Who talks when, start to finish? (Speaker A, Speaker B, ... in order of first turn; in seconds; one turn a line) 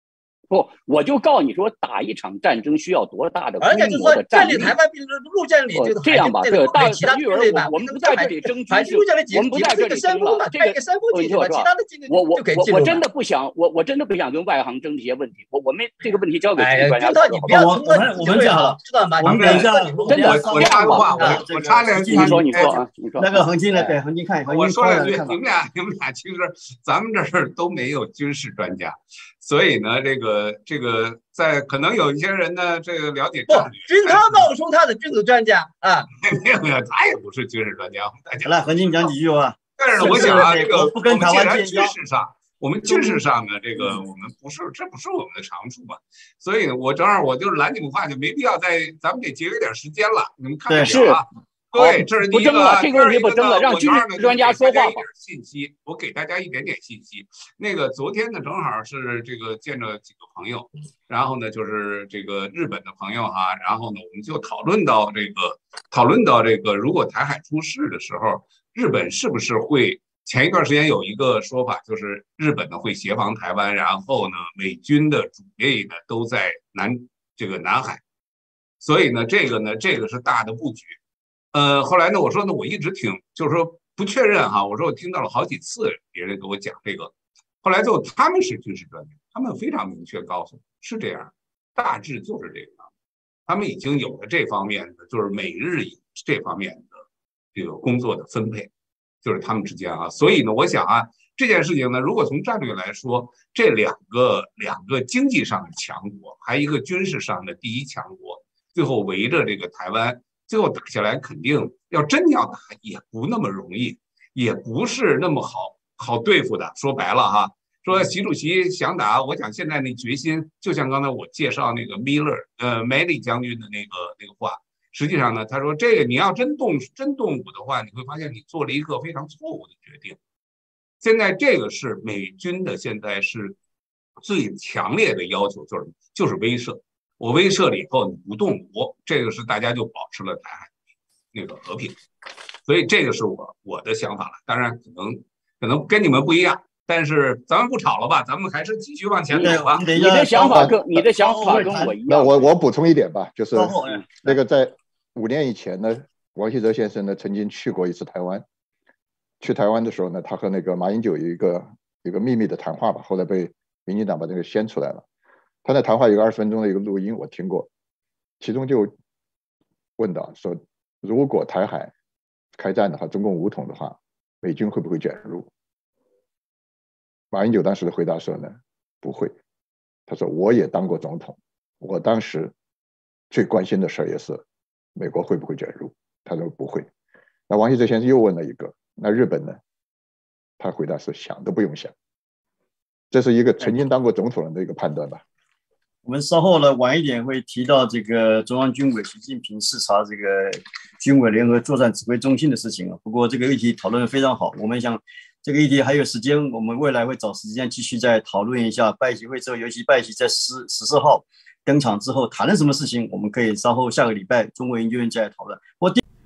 Speaker A: 0.5-4.7
Speaker B: 3.6-13.0
Speaker A: 5.7-17.5
Speaker B: 16.6-20.4
Speaker C: 17.5-25.4
Speaker D: 19.3-22.8
Speaker A: 20.1-21.4
Speaker A: 21.9-23.4
Speaker D: 24.5-34.5
Speaker B: 33.5-36.1
Speaker D: 36.2-39.1
Speaker C: 38.5-42.0
Speaker D: 39.8-78.0
Speaker C: 42.9-43.2
Speaker A: 50.8-51.2
Speaker A: 51.8-55.0
Speaker D: 78.8-81.0
Speaker D: 81.5-92.9
Speaker D: 93.5-97.0
Speaker D: 97.5-98.7
Speaker D: 99.2-130.2
Speaker D: 131.0-133.6
Speaker D: 134.2-140.7
Speaker D: 141.3-142.0
Speaker D: 142.7-149.8
Speaker A: 149.3-152.4
Speaker C: 149.4-152.0
Speaker E: 150.4-150.8
Speaker E: 152.1-158.4
Speaker C: 153.6-154.4
Speaker E: 159.4-165.0
Speaker E: 165.6-167.7
Speaker E: 168.4-168.9
Speaker E: 170.0-171.9
Speaker E: 172.6-175.5
Speaker E: 177.3-179.4
Speaker E: 180.1-182.5
Speaker E: 183.3-184.4
Speaker E: 184.9-186.9
Speaker E: 187.5-189.6
Speaker E: 190.6-191.9
Speaker E: 193.1-195.2
Speaker C: 196.1-216.0